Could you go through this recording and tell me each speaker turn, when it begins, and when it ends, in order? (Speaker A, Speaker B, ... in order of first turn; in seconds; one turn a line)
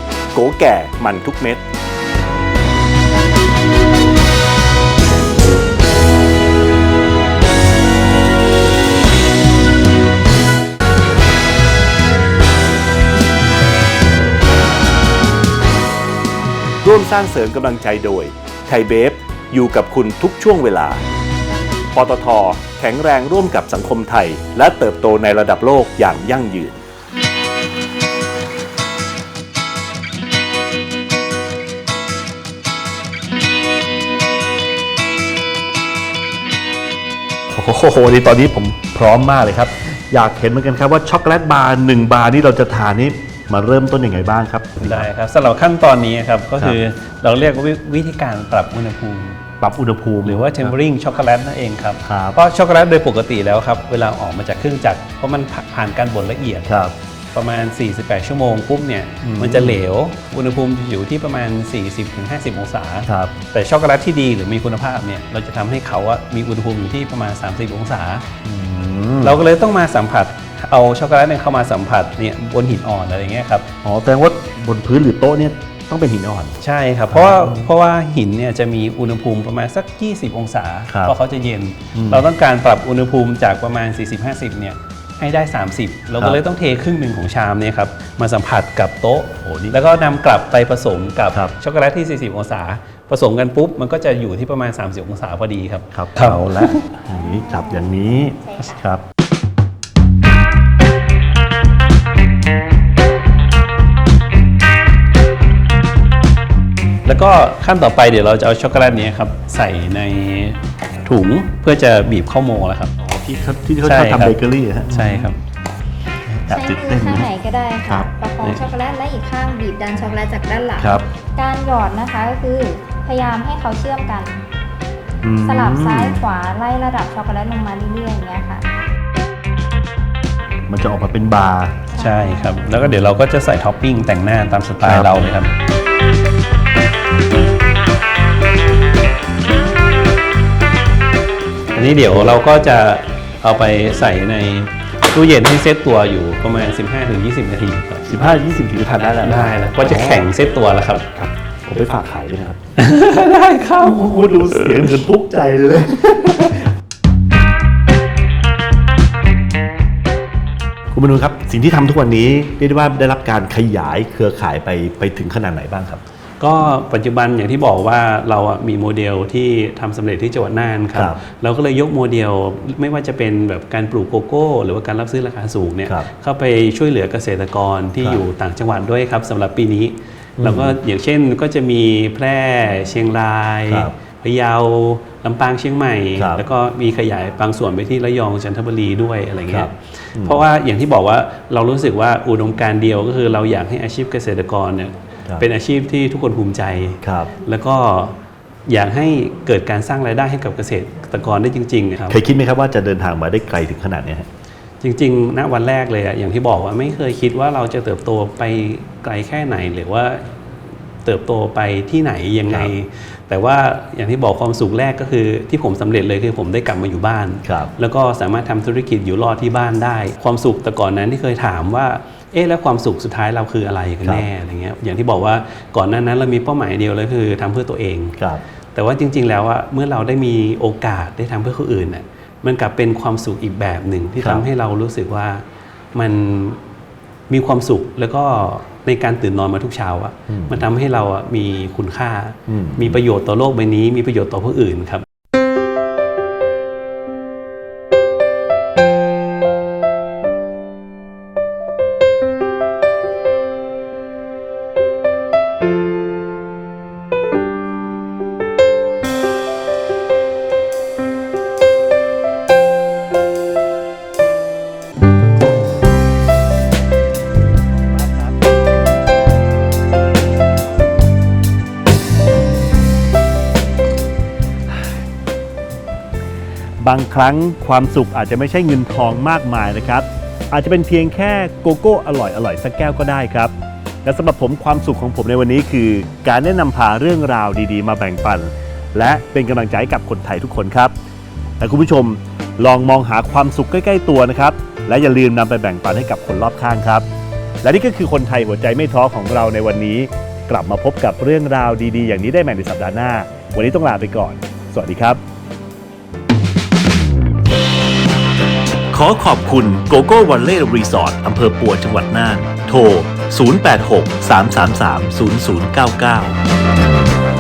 Speaker A: 0.3-1.6
Speaker A: 16.8-21.0
Speaker A: 21.9-26.8
Speaker A: 37.5-45.1
Speaker B: 44.8-49.5
Speaker A: 49.6-50.8
Speaker B: 50.2-68.3
Speaker A: 52.0-52.4
Speaker A: 56.7-56.9
Speaker A: 59.2-59.8
Speaker A: 63.1-63.4
Speaker A: 68.4-69.4
Speaker B: 69.2-73.7
Speaker A: 73.8-76.6
Speaker B: 76.6-96.8
Speaker A: 77.1-77.7
Speaker A: 80.9-81.2
Speaker A: 81.9-82.3
Speaker A: 89.5-89.8
Speaker A: 95.9-99.0
Speaker C: 97.2-97.9
Speaker C: 98.5-98.8
Speaker B: 107.0-112.9
Speaker A: 113.0-115.3
Speaker B: 113.8-114.4
Speaker B: 114.9-115.4
Speaker A: 116.3-117.3
Speaker C: 116.5-124.3
Speaker A: 117.8-118.1
Speaker A: 120.8-121.1
Speaker A: 125.2-126.2
Speaker C: 125.4-128.7
Speaker A: 130.7-131.8
Speaker C: 131.9-132.6
Speaker B: 132.0-135.5
Speaker A: 134.8-135.3
Speaker B: 141.7-148.1
Speaker A: 142.1-142.4
Speaker A: 148.1-150.3
Speaker B: 149.2-151.1
Speaker A: 151.1-152.6
Speaker B: 152.8-154.9
Speaker A: 153.8-156.7
Speaker A: 160.9-166.0
Speaker B: 166.4-202.2
Speaker A: 170.9-171.2
Speaker A: 180.4-180.8
Speaker A: 183.7-183.9
Speaker A: 186.2-186.5
Speaker A: 189.5-190.4
Speaker A: 197.0-197.3
Speaker A: 202.1-204.3
Speaker B: 204.8-210.5
Speaker B: 211.0-228.2
Speaker A: 217.4-217.7
Speaker A: 228.2-228.4
Speaker B: 228.7-236.6
Speaker B: 237.3-245.1
Speaker A: 240.3-240.7
Speaker A: 242.5-243.0
Speaker A: 276.8-283.5
Speaker A: 284.0-290.9
Speaker A: 291.6-297.1
Speaker A: 297.6-305.2
Speaker A: 308.9-316.4